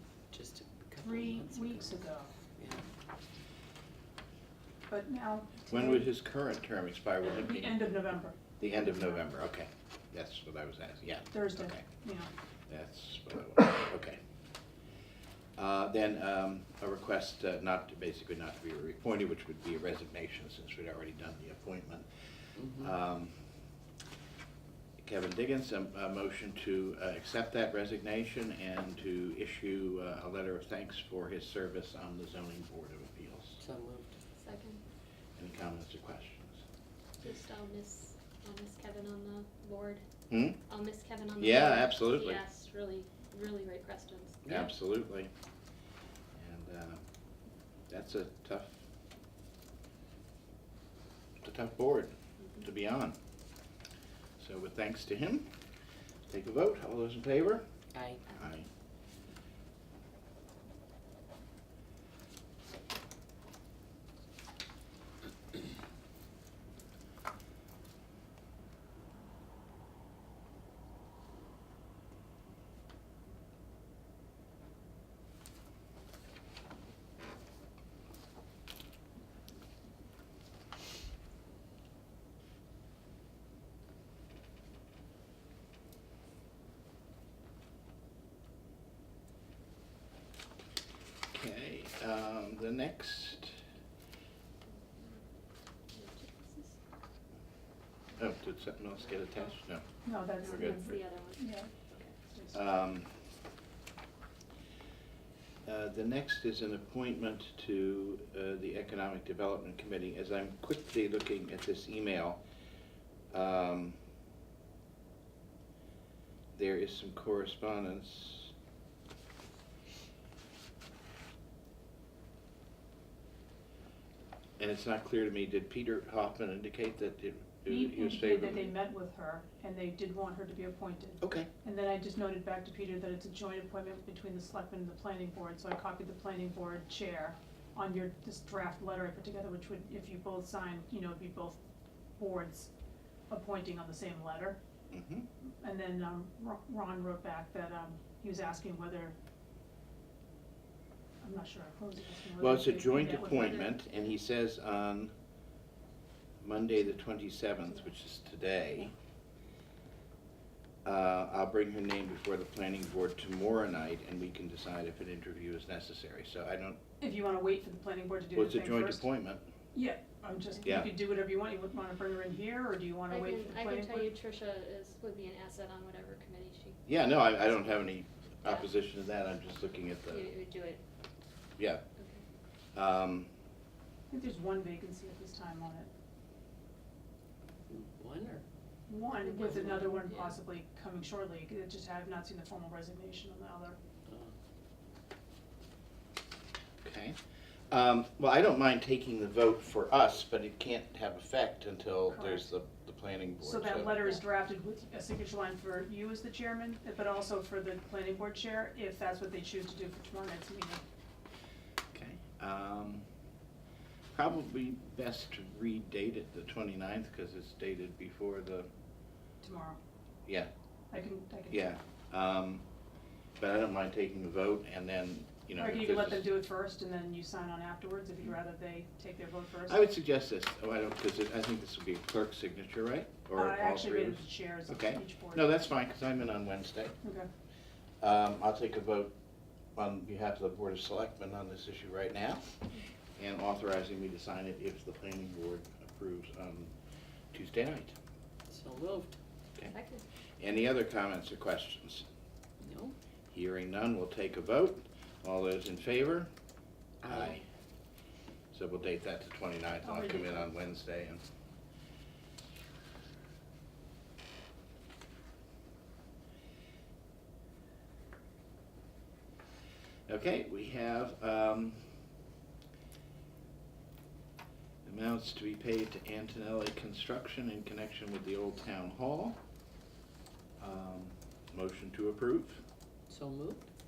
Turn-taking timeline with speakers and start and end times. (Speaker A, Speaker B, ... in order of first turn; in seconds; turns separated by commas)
Speaker A: 0.3-2.0, Speaker B: 1.0-2.3, Speaker A: 2.6-2.9, Speaker B: 4.9-6.1, Speaker C: 5.7-7.9, Speaker B: 7.2-9.1, Speaker C: 8.6-11.8, Speaker B: 11.3-12.3, Speaker C: 12.7-14.2, Speaker C: 15.6-22.1, Speaker A: 22.6-22.9, Speaker C: 22.7-23.3, Speaker C: 25.0-33.6, Speaker A: 33.6-34.2, Speaker D: 34.4-34.8, Speaker C: 35.4-36.6, Speaker D: 37.2-40.0, Speaker C: 40.3-40.6, Speaker D: 40.7-44.4, Speaker C: 41.4-42.4, Speaker A: 44.4-44.7, Speaker C: 44.5-45.3, Speaker C: 46.4-47.0, Speaker C: 47.9-48.8, Speaker C: 51.4-53.2, Speaker C: 54.4-55.5, Speaker C: 56.3-57.6, Speaker A: 57.9-58.2, Speaker C: 58.3-58.7, Speaker C: 91.3-93.6, Speaker D: 95.0-95.2, Speaker D: 95.9-96.8, Speaker C: 98.2-99.9, Speaker B: 100.0-101.7, Speaker D: 100.4-102.1, Speaker C: 100.4-101.0, Speaker B: 102.3-102.6, Speaker C: 102.5-103.1, Speaker C: 105.7-112.4, Speaker C: 113.3-114.0, Speaker C: 116.5-118.5, Speaker C: 124.6-128.7, Speaker B: 127.7-141.6, Speaker C: 131.2-131.5, Speaker B: 142.2-142.7, Speaker B: 143.3-144.6, Speaker C: 144.9-145.3, Speaker B: 145.4-149.2, Speaker B: 151.2-153.6, Speaker C: 152.4-155.1, Speaker D: 153.2-154.0, Speaker C: 156.4-158.9, Speaker C: 160.8-166.8, Speaker B: 167.0-169.0, Speaker C: 168.3-169.4, Speaker B: 169.7-174.1, Speaker C: 170.6-170.9, Speaker D: 173.1-176.8, Speaker C: 176.9-180.3, Speaker D: 180.1-180.8, Speaker C: 181.6-181.8, Speaker D: 182.0-182.2, Speaker C: 182.7-183.3, Speaker B: 184.1-185.9, Speaker A: 187.7-188.4, Speaker B: 188.9-193.8, Speaker D: 189.2-190.4, Speaker A: 194.1-194.3, Speaker C: 196.8-197.2, Speaker C: 197.7-204.1, Speaker B: 203.4-210.8, Speaker C: 211.9-213.1, Speaker C: 214.1-218.7, Speaker B: 219.4-219.8, Speaker B: 220.9-221.6, Speaker C: 221.5-222.7, Speaker C: 223.4-226.3, Speaker B: 225.6-229.8, Speaker C: 229.7-236.9, Speaker B: 233.4-235.5, Speaker B: 237.0-237.3, Speaker C: 238.0-239.1, Speaker C: 239.8-242.4, Speaker C: 243.2-246.7, Speaker C: 247.3-247.9, Speaker A: 248.5-249.2, Speaker D: 249.7-250.0, Speaker C: 250.4-252.1, Speaker A: 252.6-252.9, Speaker C: 253.3-256.3, Speaker A: 257.0-257.4, Speaker C: 257.0-257.4, Speaker C: 258.5-261.2, Speaker B: 259.8-260.5, Speaker C: 270.1-271.8, Speaker C: 274.9-279.4, Speaker C: 280.6-282.6, Speaker A: 283.1-283.7